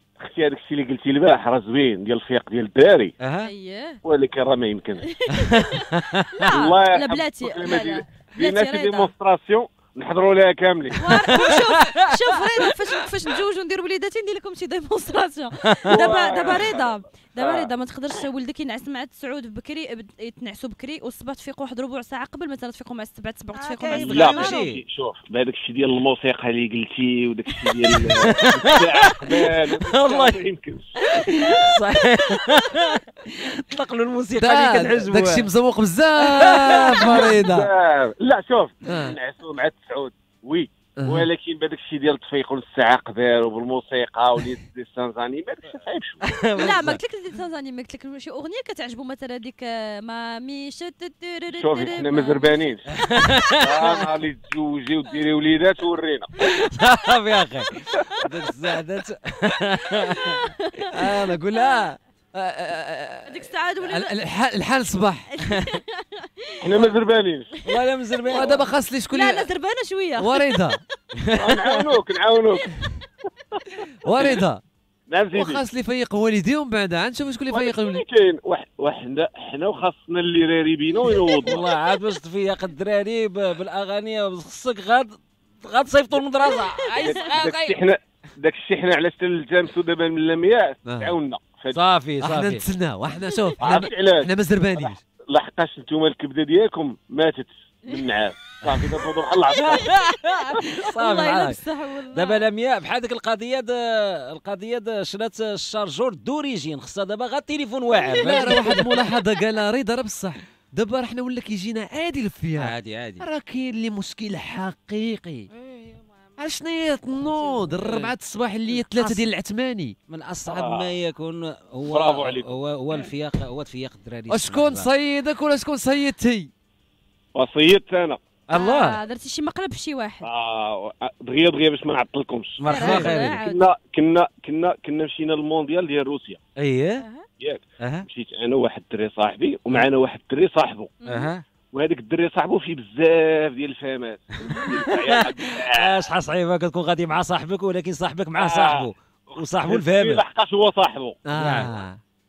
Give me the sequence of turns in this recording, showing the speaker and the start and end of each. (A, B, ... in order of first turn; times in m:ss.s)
0:00.2-0:03.1 A
0:03.2-0:03.5 B
0:03.4-0:04.0 C
0:04.0-0:05.0 A
0:05.0-0:09.1 C
0:05.4-0:06.5 B
0:06.5-0:11.4 A
0:11.0-0:24.6 C
0:11.1-0:12.0 B
0:15.7-0:16.0 B
0:15.9-0:17.7 A
0:23.5-0:24.8 B
0:23.9-0:30.9 A
0:28.2-0:30.4 B
0:31.5-0:35.5 B
0:32.2-0:32.5 C
0:34.4-0:37.7 D
0:36.4-0:37.3 B
0:36.9-0:46.2 A
0:38.9-0:39.2 D
0:41.0-0:41.3 D
0:46.2-0:47.0 B
0:46.5-0:52.7 C
0:51.6-0:52.8 A
0:53.0-0:54.0 B
0:53.6-0:56.3 A
0:56.7-1:00.4 B
1:00.3-1:01.9 C
1:00.9-1:05.3 D
1:03.2-1:04.2 C
1:05.3-1:06.9 C
1:06.6-1:07.5 A
1:07.6-1:08.6 B
1:08.3-1:09.5 D
1:09.1-1:10.7 C
1:10.2-1:10.8 D
1:11.2-1:11.9 B
1:11.3-1:12.7 A
1:14.0-1:14.6 D
1:15.1-1:15.6 A
1:15.3-1:18.0 D
1:17.5-1:21.6 A
1:21.3-1:22.0 C
1:21.4-1:27.8 B
1:26.5-1:27.2 C
1:27.0-1:31.8 A
1:30.9-1:31.1 D
1:31.7-1:32.6 B
1:32.2-1:35.0 D
1:33.6-1:39.9 A
1:38.6-1:39.0 B
1:39.6-1:42.4 C
1:39.6-1:49.1 B
1:48.0-1:49.1 C
1:48.1-1:55.5 D
1:52.6-1:53.2 B
1:55.5-1:56.1 B
1:56.4-1:59.9 D
1:57.4-1:58.1 B
1:58.7-1:59.3 B
2:00.1-2:04.9 B
2:00.5-2:00.9 A
2:01.9-2:02.5 A
2:04.3-2:06.5 D
2:07.4-2:08.2 A
2:08.5-2:09.0 B
2:08.5-2:10.3 C
2:10.2-2:16.4 A
2:12.6-2:13.4 B
2:12.7-2:13.6 C
2:16.6-2:17.0 B
2:17.0-2:17.2 C
2:17.4-2:20.9 A
2:17.8-2:18.0 B
2:21.0-2:21.3 C
2:21.1-2:21.4 B
2:21.7-2:26.0 A
2:24.5-2:30.2 B
2:28.4-2:31.8 A
2:31.3-2:32.0 D
2:31.4-2:31.7 B